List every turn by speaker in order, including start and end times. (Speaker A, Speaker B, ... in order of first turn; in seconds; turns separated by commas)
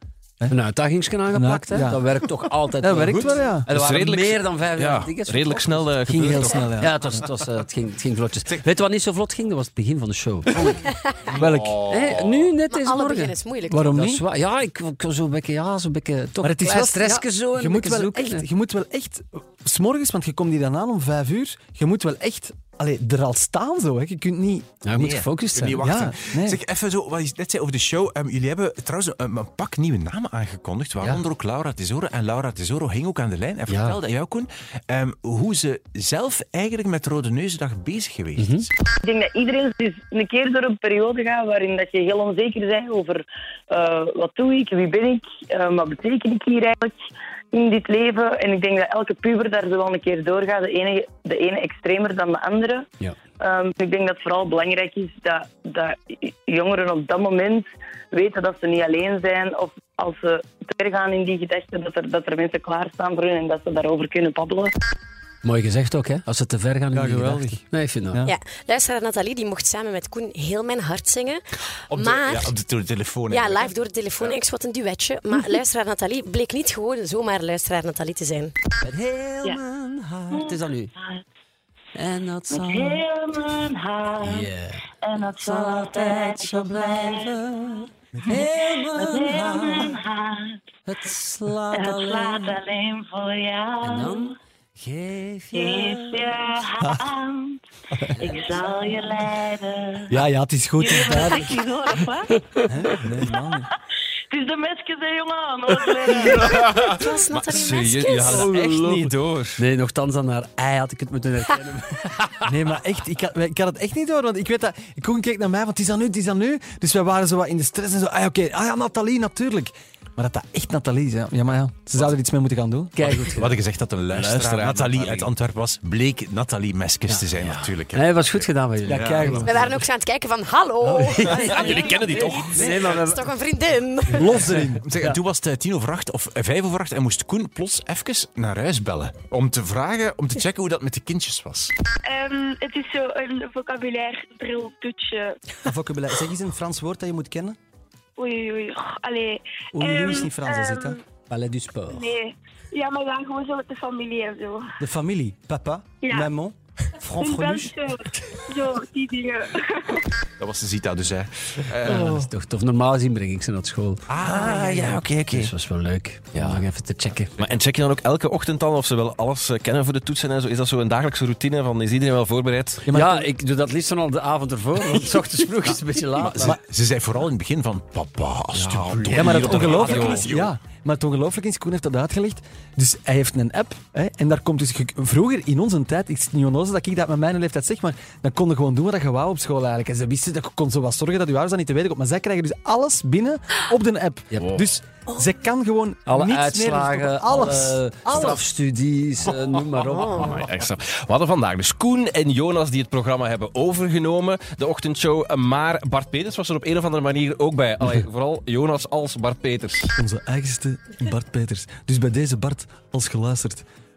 Speaker A: 0.5-10.9, Speaker B: 1.3-2.0, Speaker B: 2.8-3.7, Speaker C: 3.7-6.5, Speaker B: 6.1-7.2, Speaker B: 11.3-11.8, Speaker C: 11.4-12.5, Speaker A: 11.9-13.4, Speaker D: 12.7-13.8, Speaker B: 13.7-14.2, Speaker A: 13.9-18.4, Speaker B: 16.4-25.2, Speaker A: 24.8-25.9, Speaker E: 25.0-38.7, Speaker B: 25.8-26.6, Speaker A: 33.7-34.0, Speaker A: 38.4-38.6, Speaker F: 39.0-47.0, Speaker F: 47.5-52.9, Speaker F: 53.4-64.7, Speaker A: 65.4-68.2, Speaker B: 66.9-68.3, Speaker D: 68.2-71.4, Speaker E: 71.9-74.4, Speaker D: 72.0-72.5, Speaker D: 73.3-78.5, Speaker A: 78.8-80.9, Speaker A: 81.9-83.0, Speaker F: 82.5-83.9, Speaker A: 84.2-90.0, Speaker F: 85.2-87.2, Speaker B: 88.2-88.5, Speaker F: 88.9-90.4, Speaker A: 90.8-92.6, Speaker A: 93.8-96.6, Speaker F: 95.5-97.5, Speaker A: 98.2-98.8, Speaker F: 98.3-99.6, Speaker B: 100.1-101.7, Speaker F: 100.8-102.1, Speaker B: 102.6-103.7, Speaker F: 104.3-106.9, Speaker C: 106.2-109.6, Speaker D: 107.0-108.4, Speaker A: 108.3-108.7, Speaker B: 108.3-109.1, Speaker A: 109.6-112.5, Speaker B: 112.5-123.2, Speaker A: 123.0-123.6, Speaker E: 123.3-129.5, Speaker C: 124.1-125.3, Speaker A: 127.1-129.8, Speaker B: 128.8-129.5, Speaker D: 129.4-131.2, Speaker A: 130.8-133.3, Speaker B: 131.2-132.7, Speaker C: 131.3-131.7, Speaker E: 131.3-133.0, Speaker D: 132.1-134.3, Speaker B: 134.1-134.8, Speaker E: 134.7-141.7, Speaker G: 142.1-145.4, Speaker B: 145.6-147.6, Speaker G: 148.2-151.0, Speaker B: 149.7-151.0, Speaker A: 151.3-152.1, Speaker G: 151.9-154.7, Speaker B: 154.8-157.7, Speaker G: 156.0-156.3, Speaker G: 157.2-160.1, Speaker E: 160.4-162.1, Speaker A: 161.8-167.3, Speaker B: 161.9-162.2, Speaker E: 164.1-165.5, Speaker C: 164.2-165.4, Speaker C: 166.3-166.6, Speaker C: 167.4-172.8, Speaker B: 172.9-173.3, Speaker A: 172.9-176.6, Speaker E: 176.2-180.2, Speaker C: 178.6-180.5, Speaker B: 179.1-198.4, Speaker A: 196.1-200.3, Speaker C: 199.5-209.9, Speaker B: 210.0-213.6